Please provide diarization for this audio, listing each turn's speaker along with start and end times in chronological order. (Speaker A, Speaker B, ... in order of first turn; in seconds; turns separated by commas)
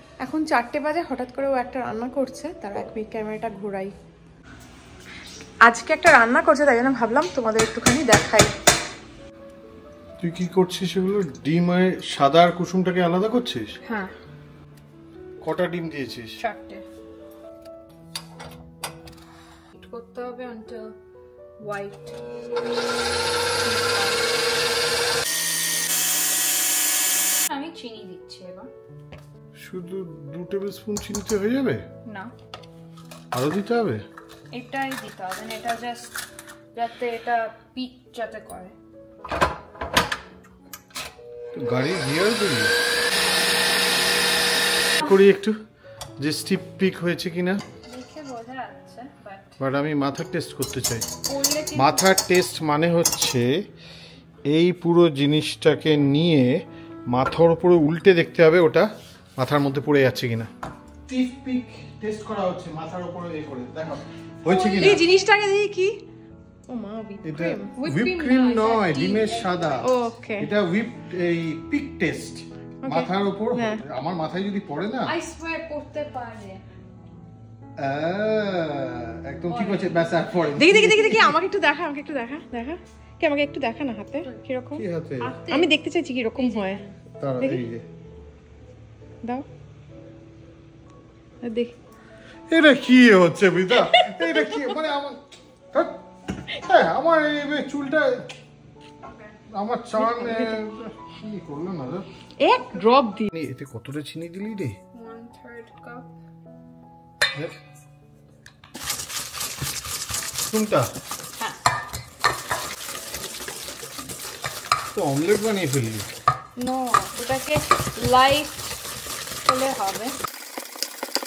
Speaker A: 0.2-3.9, Speaker A: 5.7-8.5, Speaker B: 10.2-13.7, Speaker C: 13.8-14.1, Speaker B: 15.4-16.3, Speaker C: 16.4-16.8, Speaker C: 19.7-20.9, Speaker C: 21.6-22.2, Speaker C: 23.6-24.3, Speaker C: 27.4-28.7, Speaker B: 29.6-31.8, Speaker C: 32.0-32.3, Speaker B: 33.3-34.0, Speaker C: 34.5-36.2, Speaker C: 36.7-38.8, Speaker B: 41.5-42.7, Speaker B: 45.0-45.6, Speaker B: 46.2-47.6, Speaker C: 47.8-49.6, Speaker B: 49.6-51.1, Speaker C: 51.2-52.1, Speaker B: 51.7-53.5, Speaker B: 54.5-56.5, Speaker B: 57.1-60.5, Speaker B: 61.1-65.0, Speaker A: 64.5-66.0, Speaker A: 66.7-67.7, Speaker B: 67.2-75.1, Speaker C: 67.7-70.0, Speaker A: 69.8-70.5, Speaker A: 72.8-73.8, Speaker C: 75.0-76.6, Speaker B: 77.8-81.4, Speaker C: 79.5-80.4, Speaker A: 80.5-84.8, Speaker B: 84.8-85.3, Speaker C: 85.2-85.8, Speaker A: 85.5-86.8, Speaker C: 86.3-87.0, Speaker B: 87.2-87.8, Speaker A: 91.4-91.7, Speaker B: 92.5-98.3, Speaker A: 93.8-94.7, Speaker B: 99.5-102.0, Speaker A: 100.0-100.6, Speaker A: 102.4-103.3, Speaker B: 103.3-104.8, Speaker C: 104.9-106.1, Speaker B: 110.5-110.9, Speaker B: 114.9-116.1, Speaker C: 116.6-118.8, Speaker C: 119.4-120.1